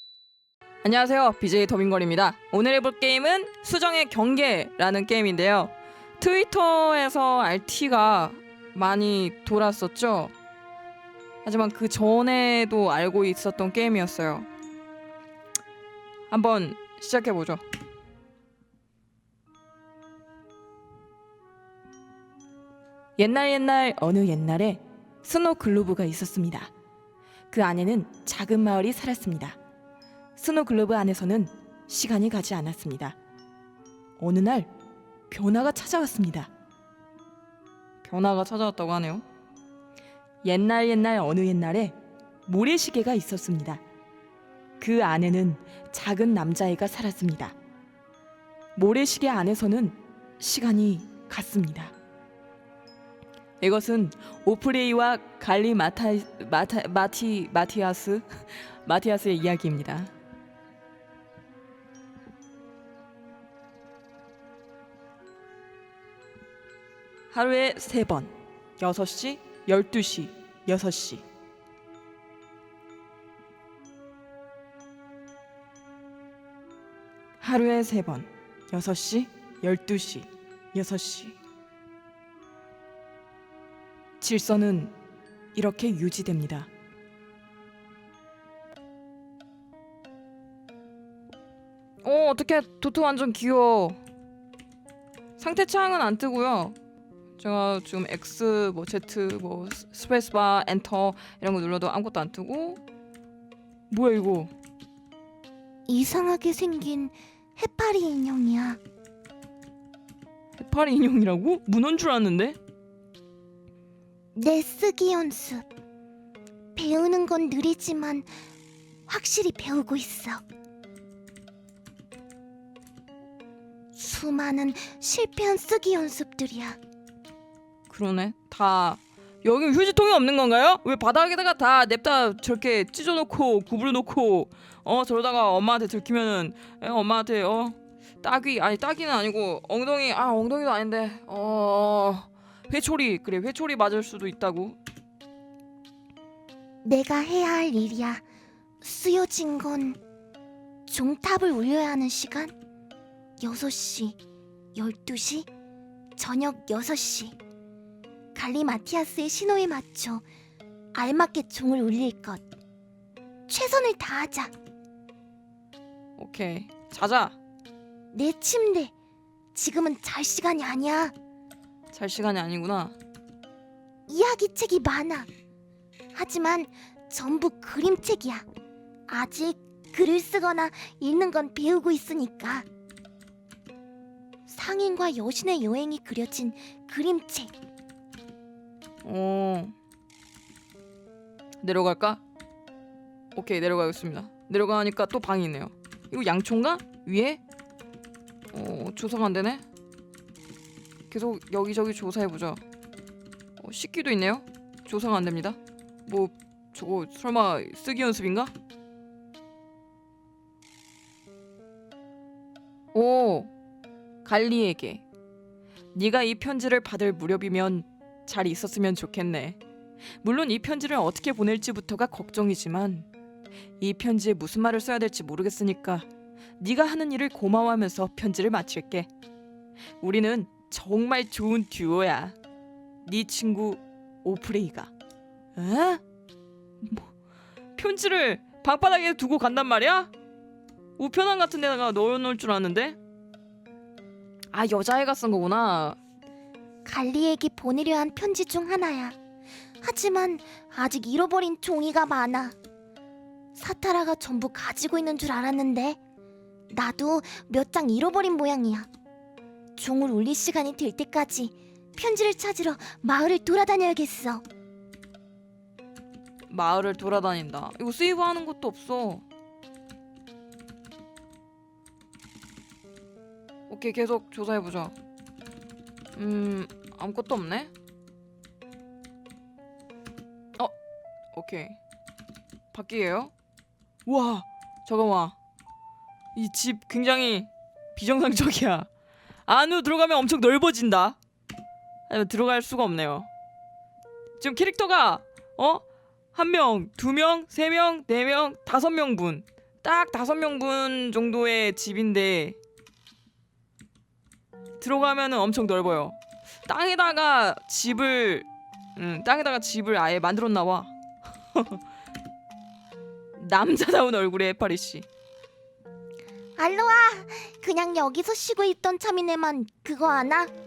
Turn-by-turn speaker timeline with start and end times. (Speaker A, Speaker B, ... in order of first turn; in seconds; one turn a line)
Speaker A: 0.8-10.3
Speaker A: 11.4-14.5
Speaker A: 16.3-17.6
Speaker A: 23.2-26.7
Speaker A: 27.5-29.6
Speaker A: 30.4-33.2
Speaker A: 34.2-34.7
Speaker A: 35.3-36.5
Speaker A: 38.0-39.3
Speaker A: 40.4-43.8
Speaker A: 44.8-47.5
Speaker A: 48.8-51.9
Speaker A: 53.6-60.1
Speaker A: 67.3-71.2
Speaker A: 77.4-81.4
Speaker A: 84.2-85.0
Speaker A: 85.5-86.7
Speaker A: 92.0-94.0
Speaker A: 95.4-96.8
Speaker A: 97.4-102.8
Speaker A: 103.9-104.5
Speaker B: 105.9-108.8
Speaker A: 110.6-112.6
Speaker B: 114.3-115.7
Speaker B: 116.8-118.3
Speaker B: 119.1-120.4
Speaker B: 124.0-126.8
Speaker A: 127.9-144.8
Speaker B: 146.8-148.2
Speaker B: 148.8-150.0
Speaker B: 150.9-152.5
Speaker B: 153.4-154.2
Speaker B: 154.7-155.5
Speaker B: 156.2-157.4
Speaker B: 158.3-160.2
Speaker B: 160.9-162.4
Speaker B: 163.5-164.5
Speaker A: 166.2-167.4
Speaker B: 168.1-168.9
Speaker B: 169.5-171.1
Speaker A: 171.9-173.0
Speaker B: 174.1-175.3
Speaker B: 176.1-178.5
Speaker B: 179.1-182.7
Speaker B: 184.5-187.5
Speaker A: 189.0-189.8
Speaker A: 191.6-192.2
Speaker A: 193.3-197.4
Speaker A: 198.5-199.6
Speaker A: 201.1-202.6
Speaker A: 203.6-208.5
Speaker A: 212.9-213.5
Speaker A: 214.2-215.0
Speaker A: 215.9-219.6
Speaker A: 220.2-223.1
Speaker A: 223.8-226.1
Speaker A: 226.6-229.1
Speaker A: 230.0-232.4
Speaker A: 233.1-234.9
Speaker A: 235.6-236.0
Speaker A: 236.8-237.1
Speaker A: 237.8-240.1
Speaker A: 241.0-243.0
Speaker A: 244.5-246.0
Speaker B: 246.8-249.2
Speaker B: 249.8-252.6
Speaker B: 253.6-256.0
Speaker B: 256.7-258.9
Speaker B: 259.8-264.4
Speaker A: 266.5-269.2
Speaker A: 273.7-274.9
Speaker A: 276.2-277.7
Speaker A: 281.3-281.8
Speaker A: 282.7-283.3
Speaker A: 284.1-285.4
Speaker A: 286.4-288.9
Speaker A: 289.5-291.2
Speaker A: 292.1-293.3
Speaker A: 294.4-302.6
Speaker A: 304.8-310.9
Speaker A: 311.5-311.8
Speaker A: 313.4-315.1
Speaker B: 316.6-320.5